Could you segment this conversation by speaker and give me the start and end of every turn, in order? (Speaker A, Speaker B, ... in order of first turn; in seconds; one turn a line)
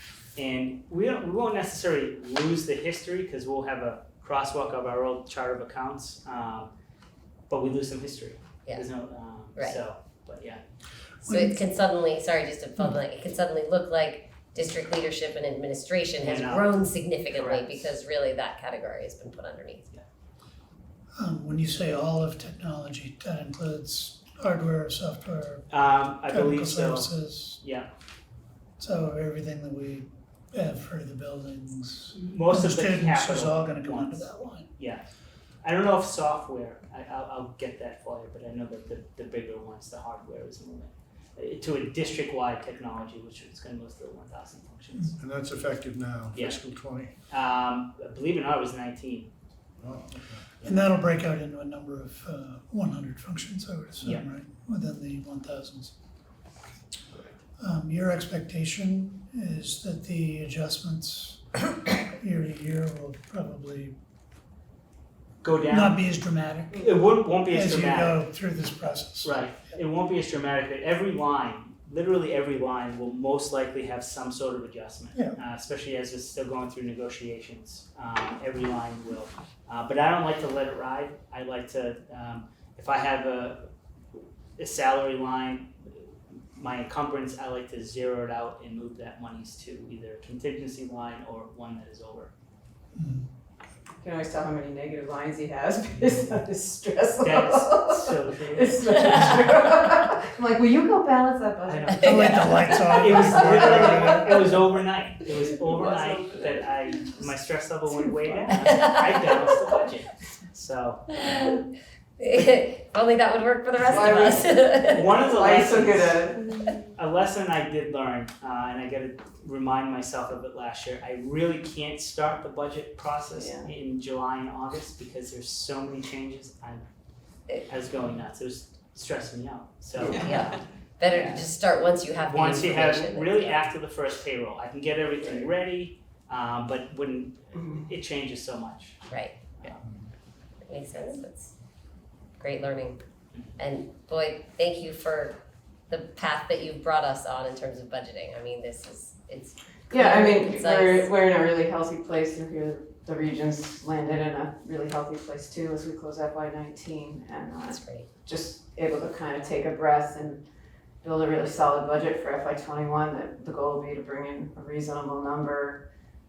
Speaker A: 0.4-6.7
Speaker A: 7.5-10.6
Speaker B: 9.6-9.8
Speaker C: 11.2-11.6
Speaker B: 11.2-19.9
Speaker A: 16.2-17.9
Speaker C: 21.2-25.7
Speaker A: 25.7-27.1
Speaker C: 26.3-27.6
Speaker A: 27.6-27.9
Speaker C: 28.8-34.7
Speaker A: 32.2-35.1
Speaker A: 35.6-45.2
Speaker D: 45.2-47.1
Speaker A: 46.3-46.6
Speaker A: 47.3-49.3
Speaker D: 49.8-50.4
Speaker C: 50.6-55.9
Speaker C: 57.6-64.0
Speaker A: 65.4-66.0
Speaker C: 65.7-66.9
Speaker A: 66.7-68.2
Speaker C: 67.5-69.5
Speaker A: 69.2-83.7
Speaker A: 84.6-85.7
Speaker A: 86.6-92.3
Speaker C: 93.0-93.3
Speaker E: 94.0-104.2
Speaker A: 97.2-99.4
Speaker A: 101.7-111.6
Speaker C: 102.0-104.6
Speaker E: 105.5-106.7
Speaker E: 107.9-108.7
Speaker B: 108.7-109.3
Speaker B: 112.2-115.1
Speaker E: 113.9-116.8
Speaker A: 114.8-116.2
Speaker A: 116.9-126.8
Speaker E: 123.3-123.7
Speaker A: 127.6-130.6
Speaker E: 130.0-130.5
Speaker B: 130.1-133.6
Speaker E: 131.1-131.4
Speaker A: 132.3-139.1
Speaker B: 139.1-139.7
Speaker B: 140.7-141.6
Speaker B: 142.4-143.0
Speaker B: 143.6-145.4
Speaker B: 145.9-151.1
Speaker E: 149.9-160.4
Speaker B: 157.7-158.1
Speaker E: 161.0-165.8